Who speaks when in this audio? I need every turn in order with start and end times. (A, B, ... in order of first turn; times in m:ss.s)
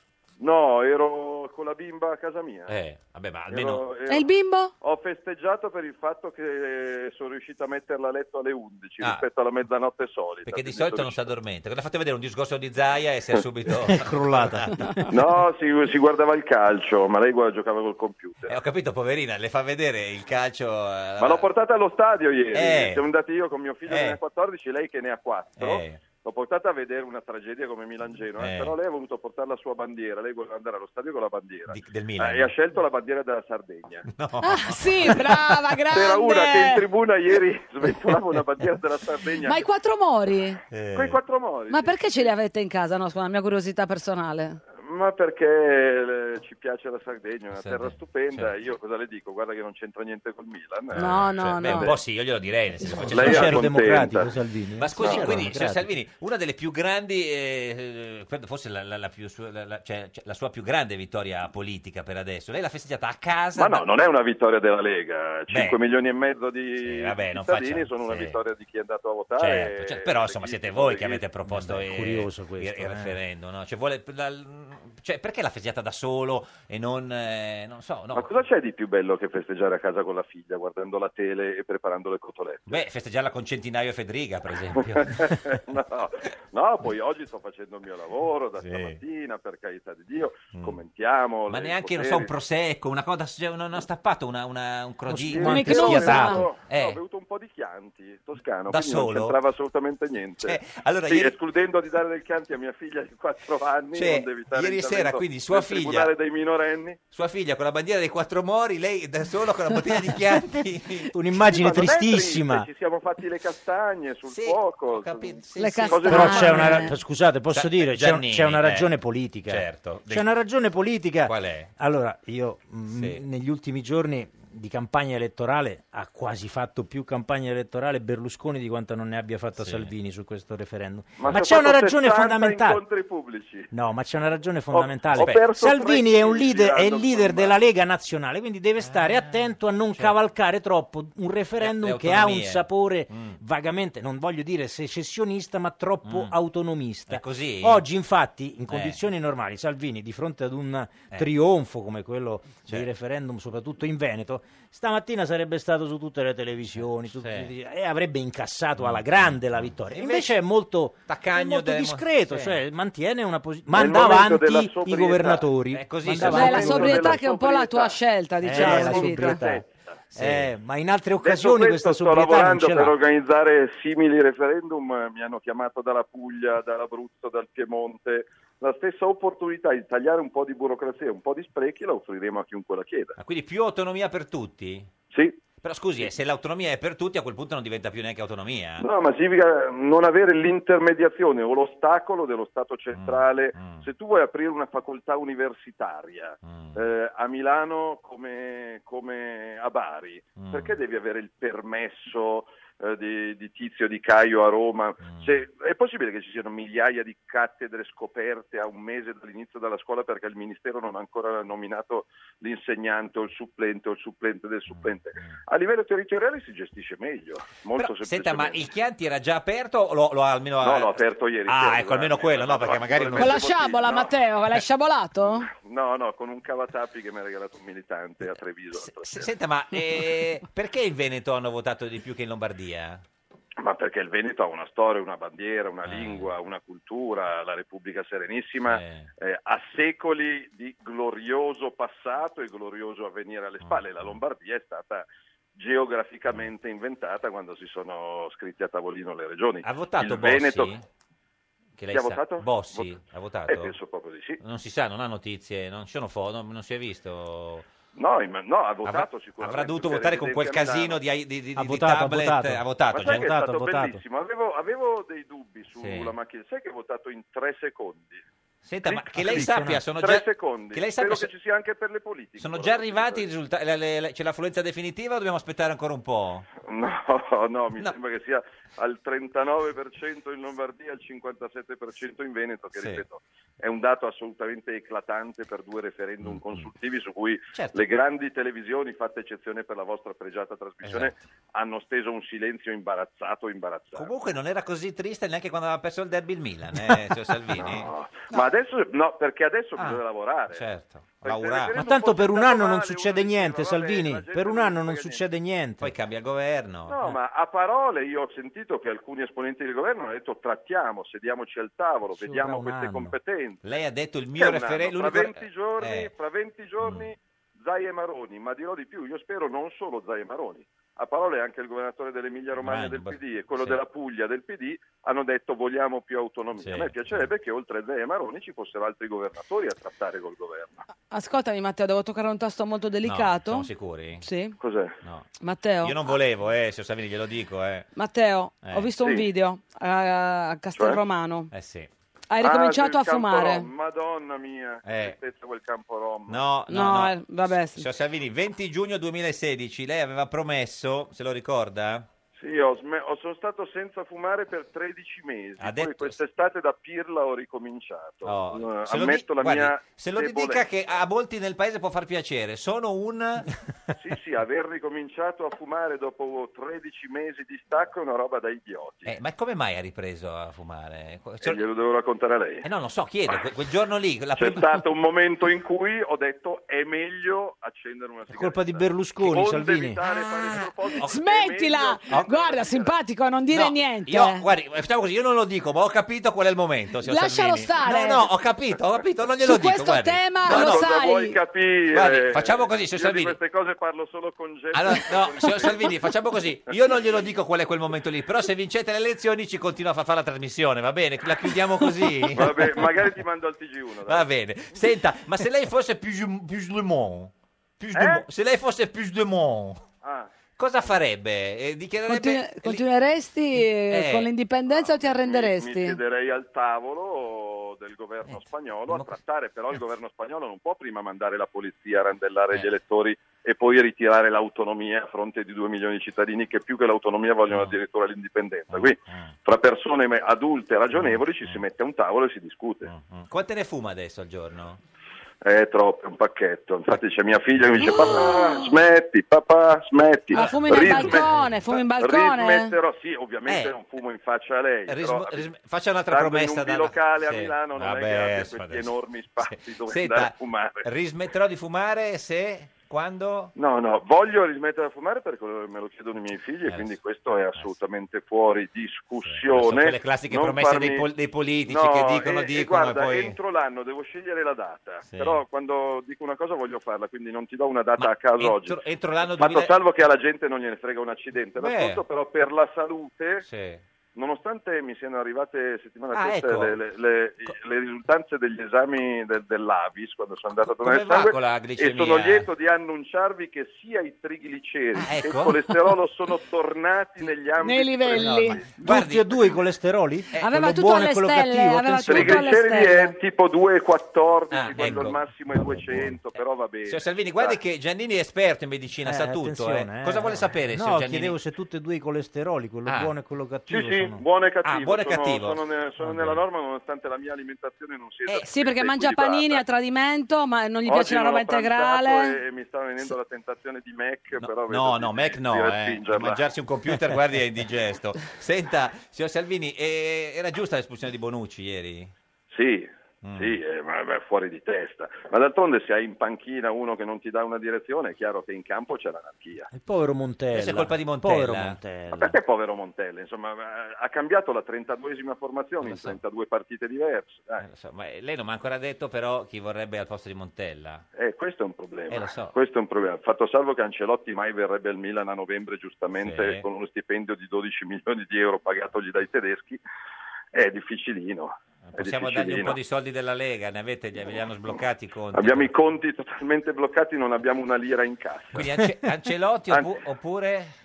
0:00.4-0:02.8 A
0:02.7-0:03.9 B
0:03.5-0:04.3 A
0:04.1-0:04.7 C
0:04.8-0:11.4 A
0:09.0-0:09.3 B
0:10.4-0:14.7 B
0:13.9-0:15.1 D
0:15.1-0:18.6 A
0:18.5-0:21.5 B
0:21.2-0:34.1 A
0:22.5-0:23.0 B
0:23.9-0:24.2 B
0:25.6-0:26.0 B
0:28.4-0:28.7 B
0:31.7-0:32.5 B
0:34.1-0:35.5 B
0:34.4-0:36.8 C
0:35.9-0:39.6 A
0:39.4-0:40.6 C
0:40.7-0:41.2 B
0:40.9-0:42.3 A
0:41.7-0:44.6 C
0:44.8-0:51.9 A
0:47.5-0:48.5 B
0:50.9-0:53.8 B
0:51.0-0:51.9 C
0:52.8-0:55.9 D
0:53.1-0:54.3 A
0:54.8-1:03.9 B
0:55.0-0:55.4 A
1:03.6-1:11.2 A
1:05.5-1:05.8 B
1:06.8-1:08.4 B
1:09.4-1:18.3 B
1:11.5-1:13.2 D
1:18.1-1:22.8 A
1:22.7-1:25.6 B
1:24.7-1:32.3 A
1:28.6-1:29.0 B
1:30.5-1:30.8 B
1:31.5-1:37.0 B
1:35.1-1:36.4 D
1:35.3-1:47.0 A
1:35.4-1:36.4 C
1:38.7-1:39.4 B
1:40.4-1:41.4 B
1:43.9-1:46.1 B
1:47.1-1:51.1 B
1:51.1-1:52.7 D
1:51.5-1:55.4 A
1:54.3-1:56.9 B
1:55.6-1:56.9 C
1:55.9-1:56.8 A
1:56.1-2:12.8 D
1:57.5-1:58.9 B
1:59.4-2:00.3 B
2:01.2-2:01.7 B
2:02.9-2:03.2 B
2:09.6-2:09.9 B
2:11.2-2:13.7 A
2:13.7-2:47.2 D
2:14.7-2:17.6 A
2:15.1-2:15.5 B
2:18.8-2:19.4 B
2:21.6-2:23.4 B
2:26.0-2:26.3 B
2:27.1-2:27.8 B
2:28.7-2:29.0 B
2:37.1-2:37.5 B
2:38.8-2:40.4 B
2:41.1-2:42.6 B
2:43.7-2:45.5 A
2:45.7-2:47.1 B
2:46.2-2:48.0 A
2:46.3-2:49.4 C
2:48.4-2:49.6 D
2:48.5-2:50.0 A
2:50.1-2:50.5 B
2:50.2-2:52.9 D
2:51.2-3:03.2 A
3:03.2-3:04.9 B
3:05.1-3:05.4 A
3:05.6-3:08.9 B
3:08.8-3:38.7 A
3:12.9-3:13.9 B
3:16.4-3:16.8 B
3:20.4-3:20.8 B
3:25.0-3:25.4 B
3:34.7-3:35.4 B
3:37.7-3:43.6 B
3:40.6-3:44.1 A
3:43.2-3:45.5 C
3:45.2-3:49.3 A
3:48.2-3:53.0 B
3:53.6-4:10.7 A
3:55.8-3:56.3 B
3:58.6-3:59.1 B
4:03.6-4:04.2 B
4:09.6-4:10.8 B
4:11.8-4:13.7 B
4:11.9-4:12.9 A
4:13.5-4:14.4 A
4:14.4-4:17.7 B
4:18.0-4:21.0 A
4:18.8-4:23.3 B
4:21.6-4:24.0 D
4:22.9-4:28.2 A
4:25.8-4:26.1 B
4:28.6-4:31.3 B
4:28.8-4:33.3 A
4:29.2-4:29.8 D
4:32.4-4:36.4 B
4:36.6-4:54.1 A
4:42.8-4:43.0 B
4:46.2-4:46.7 B
4:47.5-4:47.9 B
4:50.8-4:51.2 B
4:53.9-4:58.4 B
4:57.5-5:00.6 A
4:59.8-5:01.8 B
5:01.2-5:05.2 A
5:01.7-5:05.9 D
5:05.8-5:07.2 B
5:06.9-5:13.6 A
5:12.1-5:13.2 D
5:13.6-5:16.1 B
5:14.4-5:30.8 A
5:16.8-5:17.1 B
5:22.6-5:23.8 B
5:26.6-5:27.3 B
5:31.1-5:33.7 C
5:33.0-5:34.3 B
5:34.2-5:34.6 C
5:34.6-5:35.0 A
5:35.0-5:35.3 B
5:35.4-5:35.9 C
5:35.8-5:37.9 B
5:38.0-5:41.5 C
5:38.6-5:38.9 B
5:39.0-5:39.3 A
5:40.7-5:41.0 A
5:41.5-5:41.9 B
5:42.3-5:43.7 C
5:42.4-5:46.4 A
5:44.8-5:45.2 B
5:46.3-5:52.1 B
5:46.7-5:47.9 C
5:52.4-6:01.0 A
5:55.6-5:56.2 B
5:58.2-6:03.5 B
6:04.0-6:09.2 A
6:09.1-6:11.6 B
6:11.4-6:12.7 A
6:12.6-6:14.8 B
6:14.4-6:22.9 A
6:18.3-6:20.0 D
6:20.0-6:21.2 B
6:21.0-6:24.4 C
6:23.5-6:30.9 B
6:27.0-6:28.3 C
6:29.4-6:31.4 C
6:30.4-6:36.0 A
6:31.9-6:33.4 B
6:34.7-6:43.0 B
6:42.3-6:44.9 A
6:44.1-6:49.8 B
6:47.9-6:48.3 A
6:50.0-6:50.3 A
6:50.6-6:52.8 B
6:52.1-6:56.0 C
6:53.7-6:54.3 B
6:54.7-7:12.9 A
6:58.2-6:59.2 B
7:07.5-7:07.8 B
7:08.7-7:09.3 B
7:10.9-7:11.6 B
7:12.8-7:14.8 B
7:15.4-7:25.4 A
7:17.7-7:18.3 B
7:20.3-7:22.7 C
7:20.3-7:21.6 B
7:23.4-7:23.8 B
7:24.9-7:33.5 B
7:26.1-7:30.9 A
7:33.6-7:41.1 A
7:36.6-7:37.0 B
7:39.2-7:43.4 B
7:41.7-7:53.4 A
7:45.0-7:45.4 B
7:48.0-7:49.8 B
7:51.6-7:52.0 B
7:53.4-7:53.8 B
7:54.2-8:08.6 A
7:56.1-7:56.8 B
8:00.6-8:02.5 B
8:04.9-8:05.9 B
8:07.6-8:08.6 C
8:08.2-8:12.4 D
8:08.2-8:09.6 B
8:10.4-8:13.1 C
8:12.1-8:17.6 A
8:14.5-8:21.4 B
8:19.0-8:24.2 D
8:22.9-8:23.1 B
8:23.7-8:29.6 A
8:24.6-8:26.4 B
8:28.4-8:32.4 C
8:30.9-8:36.4 A
8:34.3-8:42.1 B
8:42.5-8:49.7 A
8:43.2-8:43.6 B
8:49.7-8:52.4 D
8:50.5-8:51.8 B
8:52.1-8:57.6 A
8:55.8-8:56.2 B
8:57.6-9:01.0 B
9:01.2-9:09.8 A
9:02.1-9:02.6 B
9:06.2-9:06.6 B
9:10.5-9:12.8 A
9:11.9-9:15.7 B
9:14.3-9:14.8 A
9:15.3-9:18.7 A
9:18.5-9:20.7 B